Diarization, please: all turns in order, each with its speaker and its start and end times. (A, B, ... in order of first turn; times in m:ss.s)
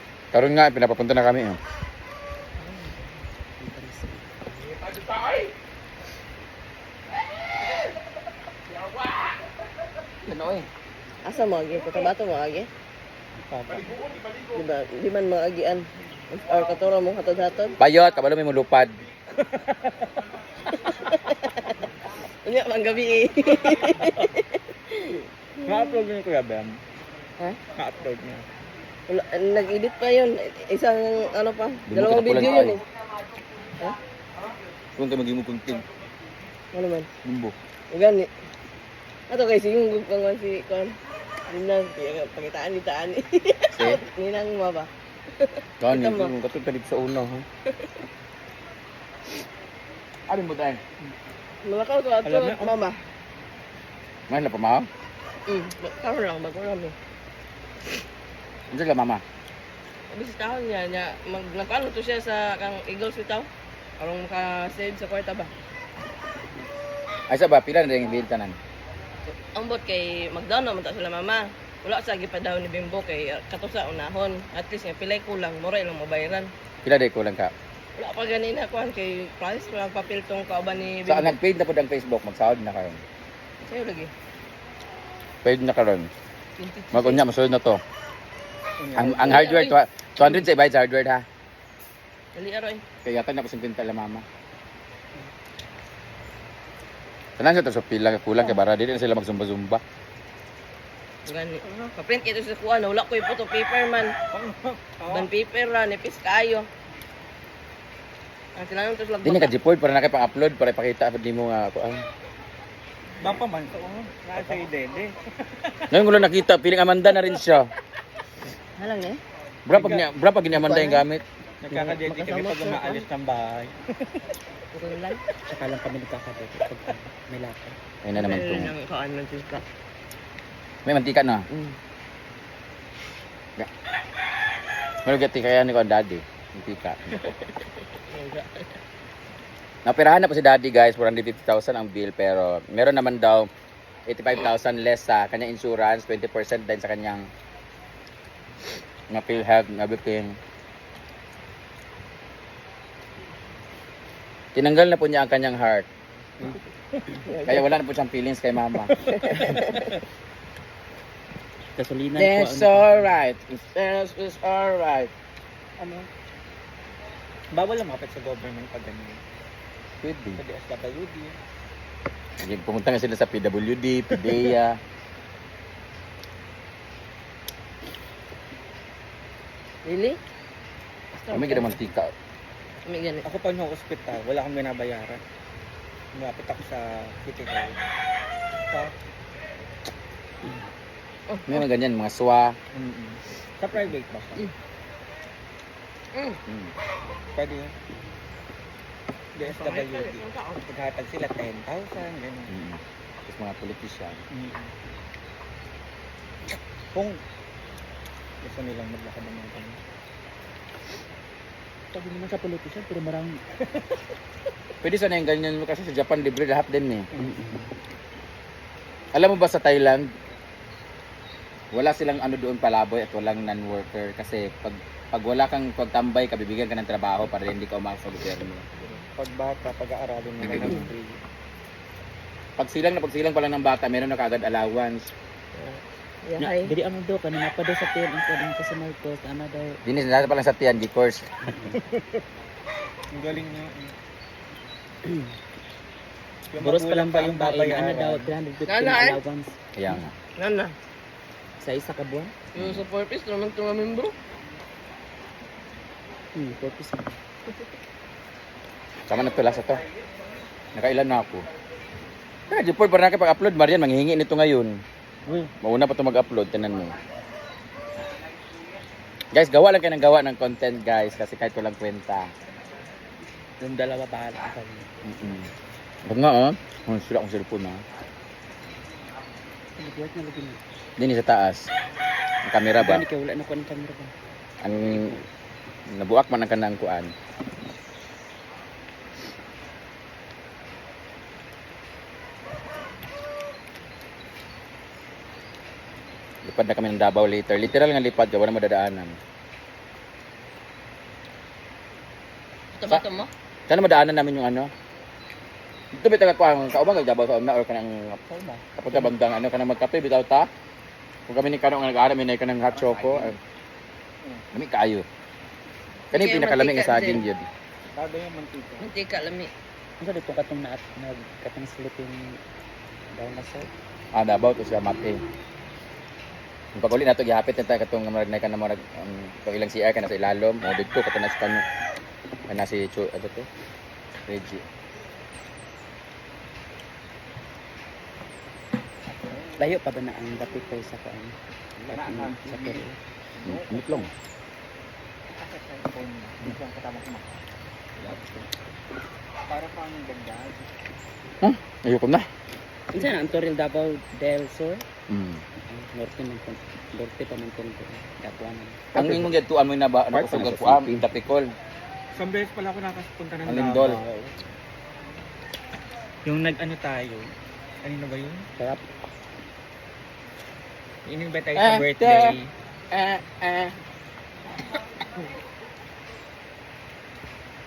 0:00.3-0:01.6 A
0:02.6-0:03.1 B
0:03.6-0:04.5 C
0:04.7-0:05.5 A
0:10.3-0:10.7 A
0:11.2-0:12.7 B
0:13.5-0:14.0 D
0:14.5-0:17.8 B
0:17.8-0:19.0 A
0:19.3-0:20.1 D
0:20.8-0:21.8 B
0:22.4-0:26.0 B
0:25.6-0:26.8 D
0:27.7-0:28.5 D
0:29.1-0:32.8 B
0:31.9-0:32.8 A
0:35.0-0:35.8 A
0:36.7-0:37.1 B
0:37.2-0:37.5 A
0:37.9-0:38.3 B
0:39.3-0:41.0 B
0:41.5-0:46.3 B
0:43.7-0:44.0 A
0:45.8-0:47.4 A
0:50.3-0:50.8 A
0:51.6-0:53.0 B
0:52.2-0:52.8 D
0:54.3-0:54.9 A
0:55.5-0:56.9 B
0:58.7-0:59.2 A
1:00.1-1:03.5 B
1:04.0-1:05.5 B
1:07.3-1:08.6 A
1:09.5-1:16.5 B
1:16.8-1:17.5 A
1:18.0-1:21.4 B
1:21.1-1:23.0 A
1:23.6-1:24.1 B
1:25.4-1:26.1 A
1:26.6-1:27.2 B
1:26.9-1:27.8 A
1:28.8-1:29.5 D
1:28.9-1:31.2 A
1:29.2-1:29.7 B
1:32.3-1:32.8 B
1:33.0-1:34.2 A
1:37.4-1:39.8 A
1:41.2-1:44.1 B
1:44.3-1:45.3 D
1:45.1-1:46.7 B
1:48.5-1:49.5 B
1:49.2-1:52.0 A
1:53.2-1:55.9 D
1:55.9-1:57.7 A
1:58.8-1:59.2 B
1:59.7-2:01.2 A
1:59.7-2:00.0 D
2:00.5-2:01.0 B
2:01.6-2:04.2 D
2:01.9-2:03.0 B
2:04.7-2:05.2 B
2:05.5-2:07.8 C
2:08.0-2:08.7 A
2:08.2-2:09.6 B
2:10.8-2:11.4 A
2:11.5-2:11.8 B
2:15.0-2:17.3 A
2:17.9-2:18.6 B
2:19.8-2:23.5 A
2:24.1-2:27.3 A
2:29.1-2:30.3 A
2:34.5-2:35.9 A
2:36.4-2:37.1 D
2:37.2-2:37.7 B
2:37.4-2:39.5 A
2:39.0-2:39.9 B
2:39.4-2:39.9 D
2:41.8-2:43.1 C
2:42.2-2:45.1 A
2:45.8-2:46.1 D
2:47.5-2:49.2 D
2:50.0-2:50.4 A
2:50.4-2:51.4 D
2:52.4-2:54.8 A
2:54.2-2:54.5 D
2:59.8-3:00.2 B
3:01.2-3:01.7 B
3:01.3-3:02.1 A
3:02.8-3:03.2 B
3:03.2-3:05.2 D
3:06.1-3:07.8 D
3:08.7-3:08.9 D
3:11.3-3:11.6 B
3:11.5-3:12.6 A
3:12.7-3:14.5 D
3:16.1-3:16.4 B
3:16.5-3:16.7 A
3:17.4-3:17.8 D
3:19.4-3:22.5 D
3:19.4-3:20.6 B
3:22.5-3:24.2 A
3:24.3-3:24.7 D
3:26.9-3:27.2 D
3:28.4-3:29.8 D
3:31.9-3:33.4 C
3:34.8-3:37.1 A
3:37.2-3:37.7 C
3:39.1-3:40.0 A
3:41.7-3:48.6 A
3:48.8-3:51.2 D
3:52.6-3:55.1 A
3:55.6-3:56.7 B
3:56.4-3:59.8 C
3:59.8-4:01.2 A
4:01.7-4:02.1 D
4:03.1-4:03.9 D
4:05.0-4:05.3 C
4:06.5-4:08.3 D
4:06.6-4:10.0 C
4:08.7-4:09.2 B
4:09.8-4:10.1 A
4:10.4-4:10.7 B
4:11.6-4:12.3 C
4:12.5-4:14.1 B
4:12.6-4:12.8 A
4:16.3-4:17.2 C
4:19.1-4:19.8 A
4:20.7-4:21.4 A
4:22.5-4:24.7 A
4:25.6-4:27.0 A
4:29.3-4:32.3 A
4:33.6-4:35.2 C
4:35.1-4:35.4 A
4:36.1-4:37.8 A
4:39.8-4:40.6 C
4:41.0-4:41.7 A
4:42.4-4:43.0 A
4:42.8-4:44.1 C
4:44.6-4:45.1 A
4:44.7-4:45.2 C
4:45.9-4:47.1 A
4:56.4-4:59.2 A
5:02.8-5:03.3 B
5:03.7-5:04.7 A
5:05.9-5:10.5 A
5:11.3-5:13.4 A
5:13.0-5:13.3 C
5:14.5-5:15.0 A
5:16.1-5:17.2 B
5:16.1-5:17.5 A
5:17.9-5:18.9 D
5:18.8-5:19.5 B
5:20.0-5:22.4 C
5:23.1-5:23.7 C
5:24.1-5:25.2 A
5:26.8-5:31.6 A
5:32.5-5:33.5 A
5:34.3-5:34.6 A
5:39.1-5:39.6 D
5:39.6-5:43.0 C
5:41.9-5:42.8 D
5:43.3-5:44.1 D
5:43.4-5:44.1 A
5:45.3-5:47.4 D
5:49.5-5:50.7 D
5:51.4-5:52.2 A
5:52.9-5:54.8 C
5:55.1-5:55.4 A
5:55.7-5:59.2 C
5:58.9-6:01.5 A
6:00.1-6:00.8 C
6:02.1-6:04.1 D
6:03.4-6:04.0 A
6:06.2-6:08.5 D
6:11.0-6:12.5 D
6:11.6-6:12.4 A
6:12.9-6:13.7 A